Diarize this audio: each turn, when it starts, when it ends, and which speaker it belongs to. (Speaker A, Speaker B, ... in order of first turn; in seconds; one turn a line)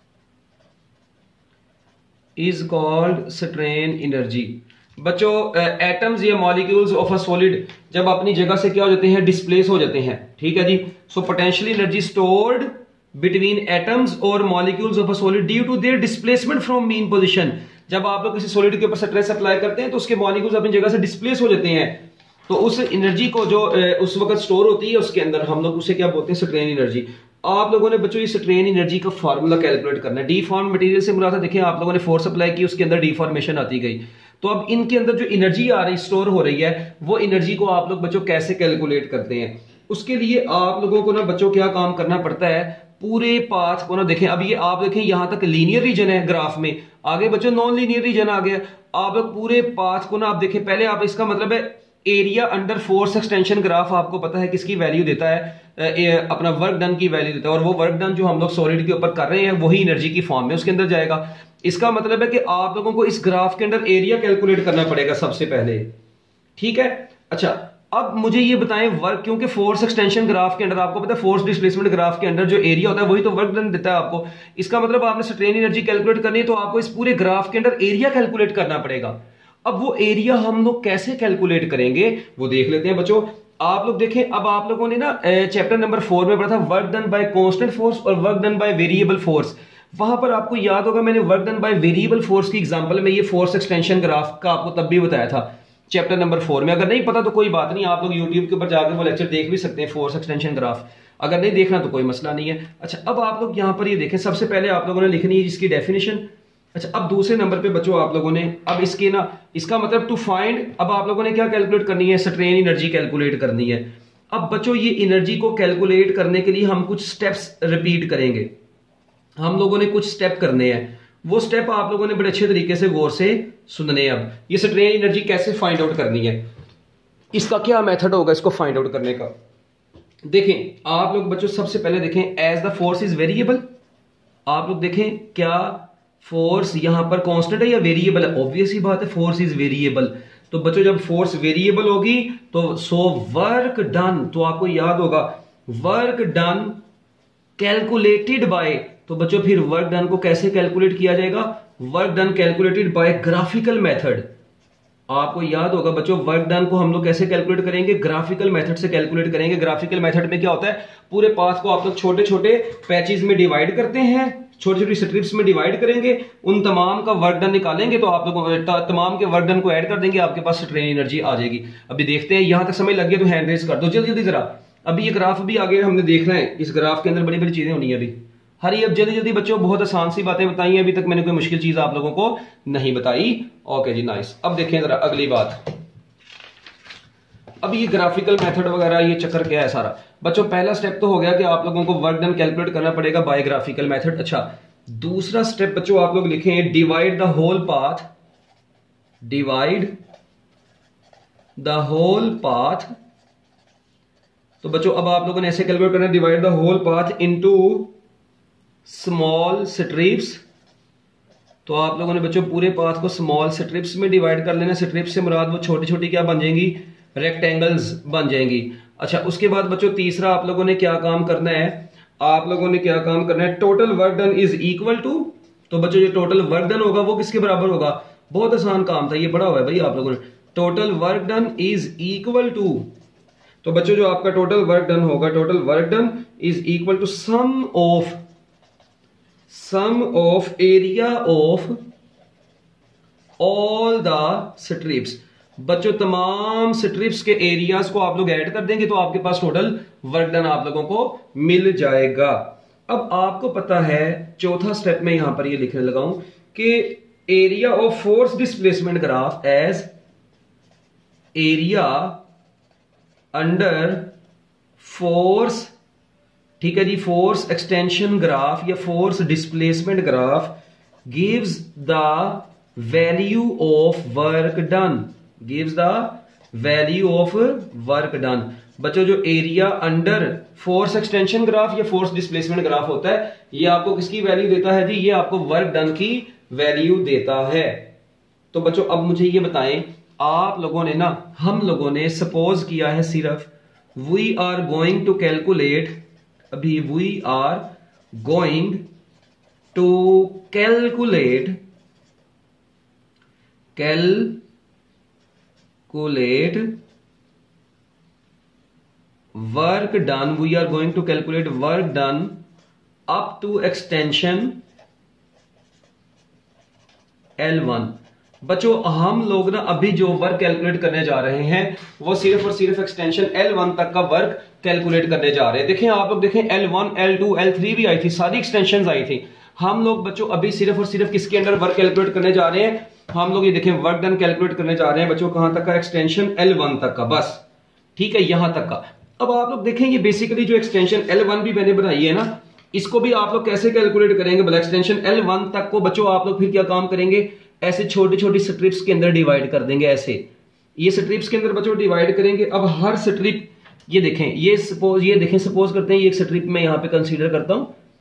Speaker A: 2.4-65.9
Speaker A: 66.6-118.5
Speaker A: 119.4-126.5
Speaker A: 127.3-129.3
Speaker A: 130.3-133.6
Speaker A: 134.5-146.8
Speaker A: 147.6-154.3
Speaker A: 155.1-185.8
Speaker A: 187.6-198.1
Speaker A: 199.2-199.9
Speaker A: 201.6-202.9
Speaker A: 204.6-207.9
Speaker A: 208.9-210.4
Speaker A: 211.7-232.9
Speaker A: 233.6-238.2
Speaker A: 239.5-241.8
Speaker A: 243.4-259.9
Speaker A: 261.4-262.2
Speaker A: 263.3-264.1
Speaker A: 264.8-265.7
Speaker A: 266.6-270.5
Speaker A: 271.1-287.9
Speaker A: 288.5-296.0
Speaker A: 296.5-298.9
Speaker A: 299.8-301.6
Speaker A: 303.8-304.4
Speaker A: 305.9-306.8
Speaker A: 309.4-312.4
Speaker A: 313.1-314.6
Speaker A: 317.4-337.4
Speaker A: 338.0-350.3
Speaker A: 350.8-357.7